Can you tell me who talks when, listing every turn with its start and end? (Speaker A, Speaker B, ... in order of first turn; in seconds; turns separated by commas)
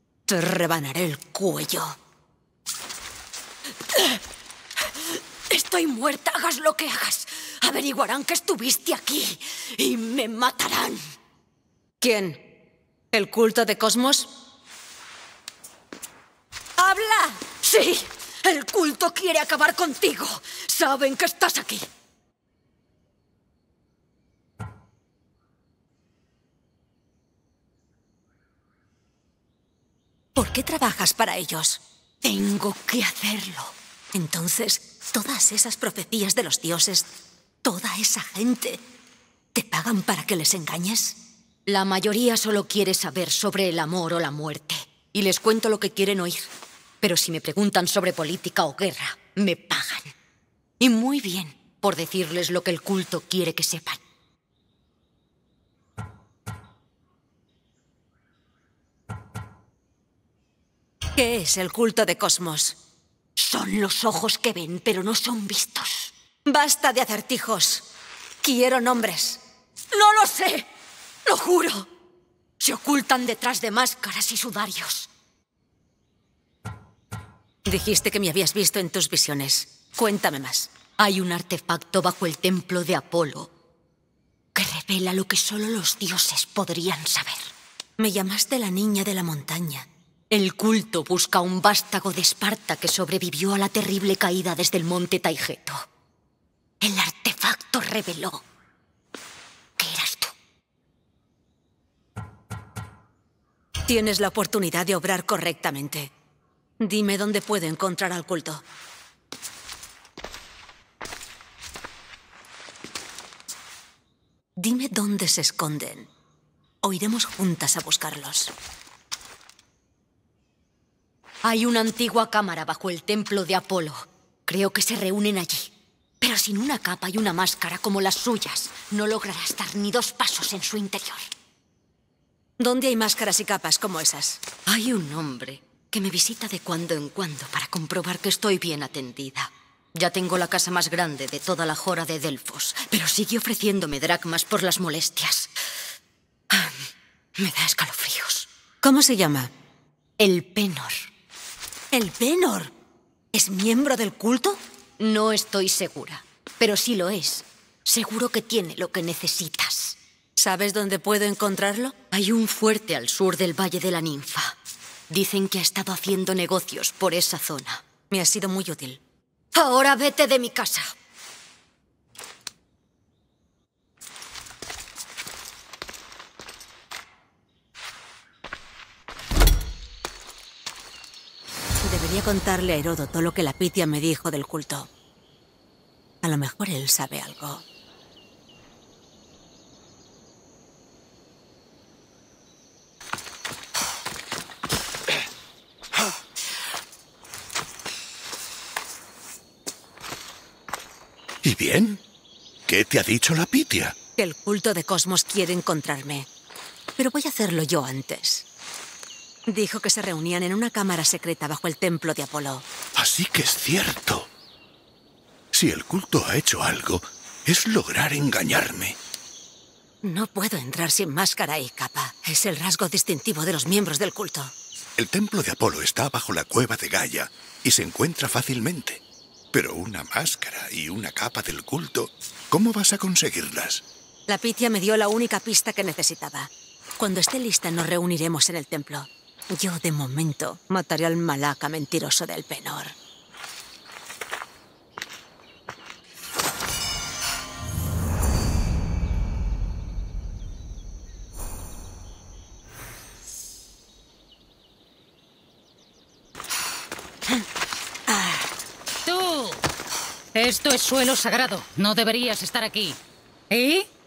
Speaker A: 0.3-2.0, Speaker B: 5.5-8.0, Speaker A: 7.8-10.9, Speaker A: 12.0-12.5, Speaker A: 13.1-14.3, Speaker A: 16.8-20.3, Speaker B: 19.3-21.8, Speaker A: 20.9-21.3, Speaker A: 30.3-31.8, Speaker B: 32.2-33.7, Speaker A: 34.1-37.1, Speaker A: 37.6-38.8, Speaker A: 39.5-41.2, Speaker B: 41.6-46.5, Speaker B: 47.0-50.1, Speaker B: 50.8-54.0, Speaker A: 61.1-62.8, Speaker B: 63.4-66.1, Speaker A: 66.4-67.8, Speaker A: 68.4-69.4, Speaker B: 69.9-70.7, Speaker B: 71.2-71.9, Speaker B: 72.6-75.1, Speaker A: 77.7-80.7, Speaker B: 81.0-83.5, Speaker B: 84.5-87.5, Speaker A: 88.0-89.9, Speaker B: 90.3-95.8, Speaker B: 96.8-98.4, Speaker B: 99.8-100.3, Speaker A: 103.9-106.1, Speaker A: 106.8-108.6, Speaker A: 114.6-116.1, Speaker A: 116.8-118.5, Speaker B: 121.4-131.2, Speaker A: 132.6-134.4, Speaker B: 134.7-145.5, Speaker B: 146.5-148.5, Speaker A: 148.8-149.5, Speaker B: 150.2-151.1, Speaker A: 151.9-152.7, Speaker A: 153.3-154.6, Speaker B: 155.0-160.0, Speaker A: 160.3-162.0, Speaker B: 162.1-164.6, Speaker B: 165.1-167.9, Speaker A: 168.1-169.0, Speaker B: 169.5-170.9, Speaker A: 181.8-184.9, Speaker A: 186.2-187.6, Speaker C: 201.4-202.0, Speaker C: 202.7-203.9, Speaker A: 204.2-206.3, Speaker A: 207.0-208.4, Speaker A: 209.5-212.7, Speaker C: 212.9-214.3, Speaker C: 215.5-219.0, Speaker A: 220.0-224.5, Speaker C: 225.0-229.0, Speaker C: 229.5-233.8, Speaker A: 234.3-242.9, Speaker D: 259.0-259.6, Speaker D: 260.3-263.0, Speaker D: 263.5-263.9